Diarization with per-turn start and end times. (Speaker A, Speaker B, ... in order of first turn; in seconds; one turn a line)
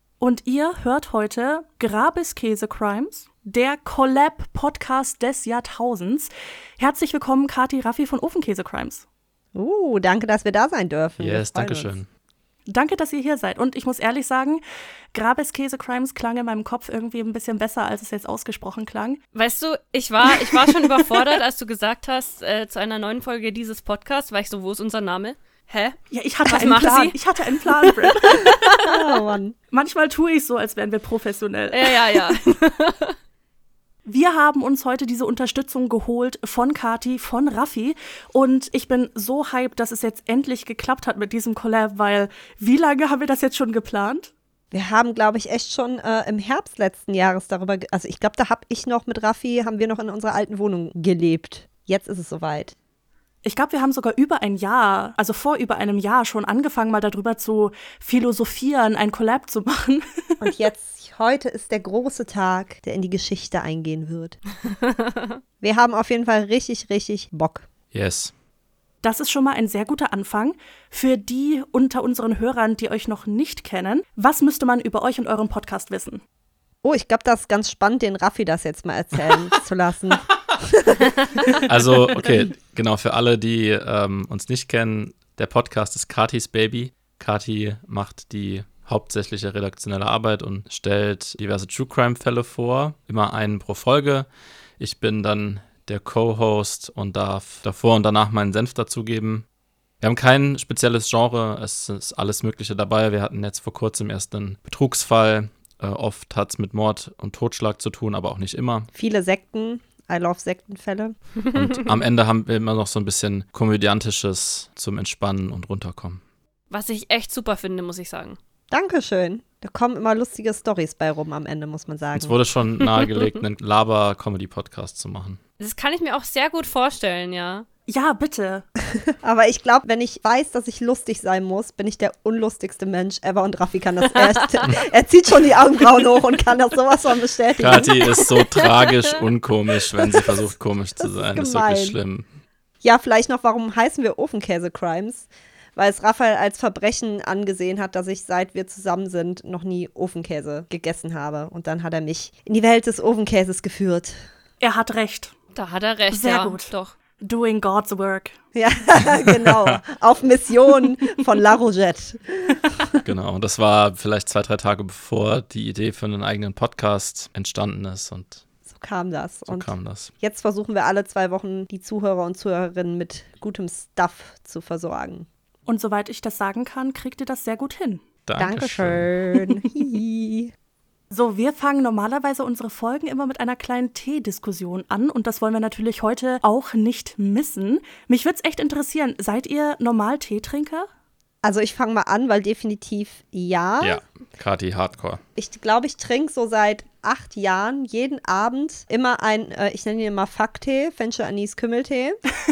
Speaker A: 0.2-9.0
Speaker B: 9.5-11.9
Speaker C: 11.2-12.1
Speaker A: 12.7-14.6
Speaker A: 15.1-19.2
Speaker D: 19.3-27.2
Speaker A: 20.3-21.3
Speaker A: 26.1-28.9
Speaker D: 27.8-28.7
Speaker B: 28.9-29.5
Speaker A: 29.7-32.3
Speaker D: 31.7-33.2
Speaker A: 34.0-44.3
Speaker B: 44.7-52.7
Speaker A: 53.4-60.0
Speaker B: 60.4-64.4
Speaker D: 65.0-65.2
Speaker B: 65.6-67.7
Speaker C: 67.9-68.3
Speaker A: 69.0-76.2
Speaker B: 76.8-81.1
Speaker C: 81.6-94.3
Speaker C: 94.8-99.4
Speaker C: 100.0-108.9
Speaker B: 108.9-111.1
Speaker C: 111.5-116.2
Speaker D: 116.7-118.4
Speaker B: 118.7-122.4
Speaker C: 122.1-125.4
Speaker D: 123.0-123.3
Speaker D: 125.6-127.7
Speaker A: 127.9-128.7
Speaker B: 129.2-137.9
Speaker C: 137.6-142.2
Speaker D: 137.9-139.0
Speaker B: 141.0-142.0
Speaker B: 142.8-154.2
Speaker A: 154.6-155.3
Speaker D: 155.5-156.9
Speaker A: 156.1-158.3
Speaker B: 158.5-163.0
Speaker C: 159.3-159.8
Speaker C: 163.0-168.4
Speaker B: 168.7-175.3
Speaker C: 169.5-170.1
Speaker A: 175.7-178.0
Speaker C: 178.3-179.6
Speaker B: 178.4-180.5
Speaker A: 181.1-190.8
Speaker B: 191.4-194.0
Speaker C: 193.8-195.2
Speaker B: 195.3-202.2